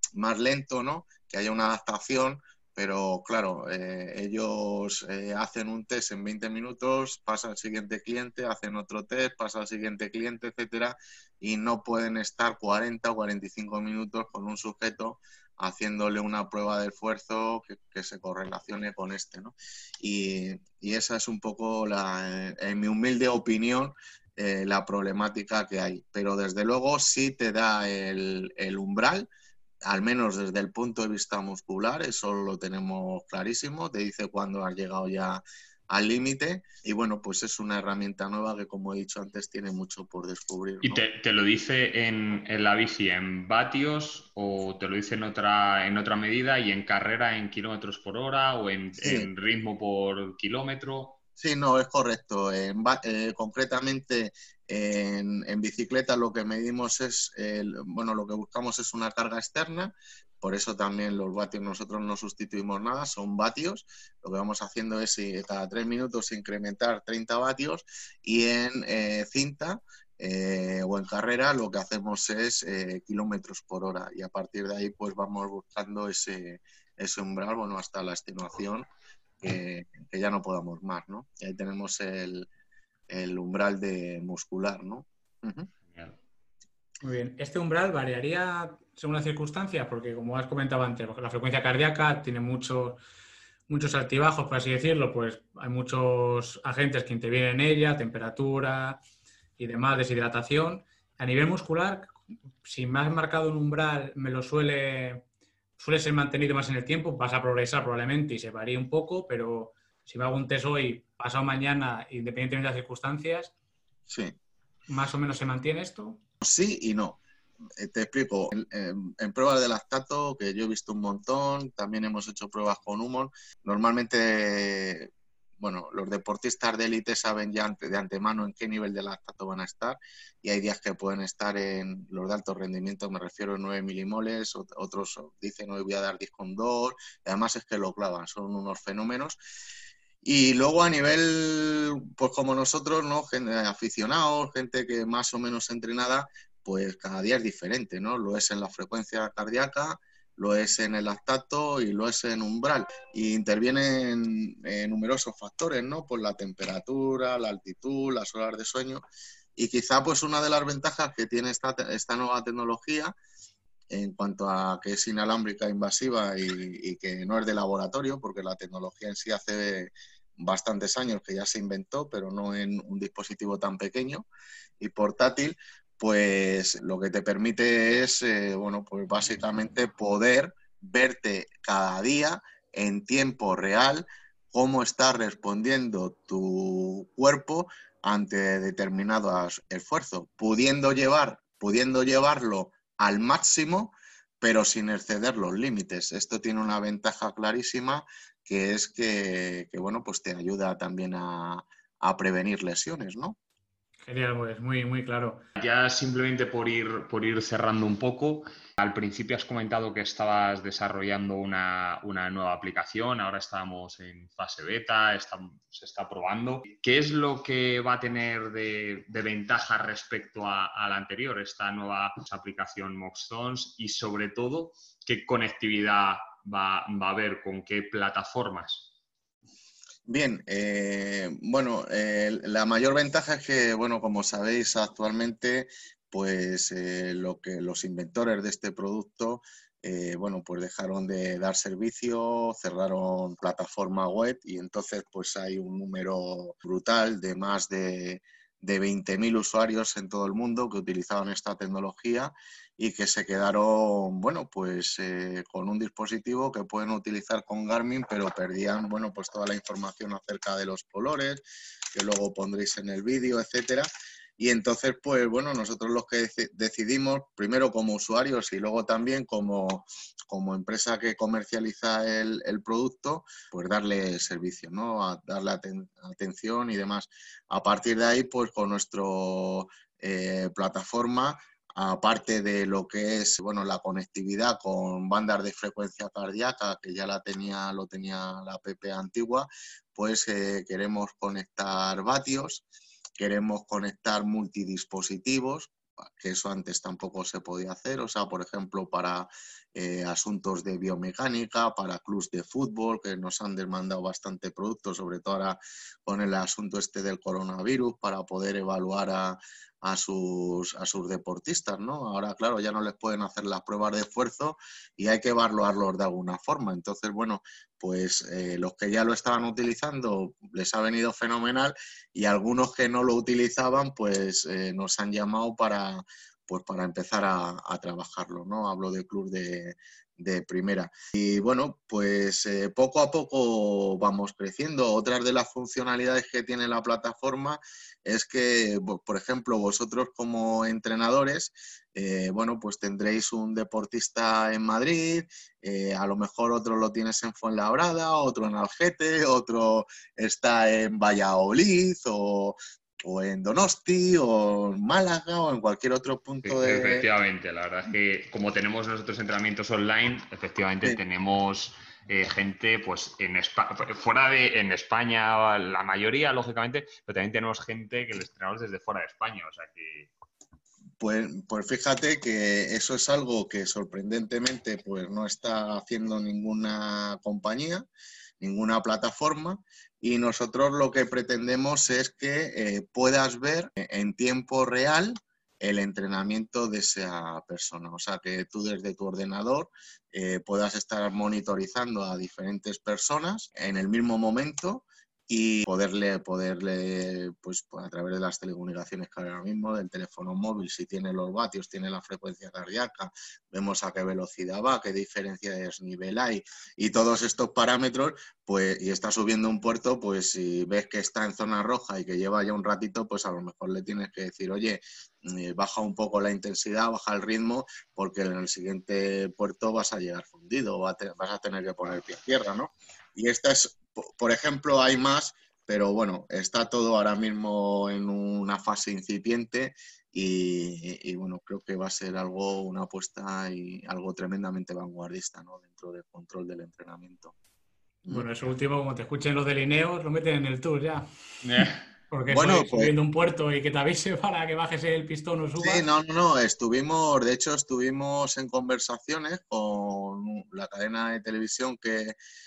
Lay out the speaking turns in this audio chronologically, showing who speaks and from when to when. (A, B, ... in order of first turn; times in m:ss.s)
0:00.1-0:29.3 A
0:29.8-0:41.0 A
0:40.8-0:51.2 B
0:49.0-0:49.3 A
0:51.4-1:18.9 A
1:19.4-1:22.5 A
1:23.1-1:25.7 A
1:25.9-1:26.2 B
1:27.0-1:33.0 C
1:33.7-1:39.0 C
1:39.6-1:45.2 C
1:45.8-1:53.5 C
1:54.1-1:54.4 A
1:54.9-1:56.2 C
1:56.4-1:57.2 A
1:57.8-2:19.4 A
2:20.2-2:39.0 A
2:39.6-2:43.1 A
2:43.9-2:54.3 A
2:54.8-3:23.4 A
3:24.0-3:25.4 C
3:25.6-3:48.9 B
3:50.0-4:52.6 A
4:53.2-5:57.1 A
5:56.4-6:10.1 B
6:11.0-6:17.9 A
6:18.4-7:17.4 A
7:18.0-7:18.3 A
7:18.1-7:21.1 C
7:21.4-7:21.9 B
7:22.1-7:25.8 C
7:22.3-7:22.9 A
7:25.6-7:32.2 A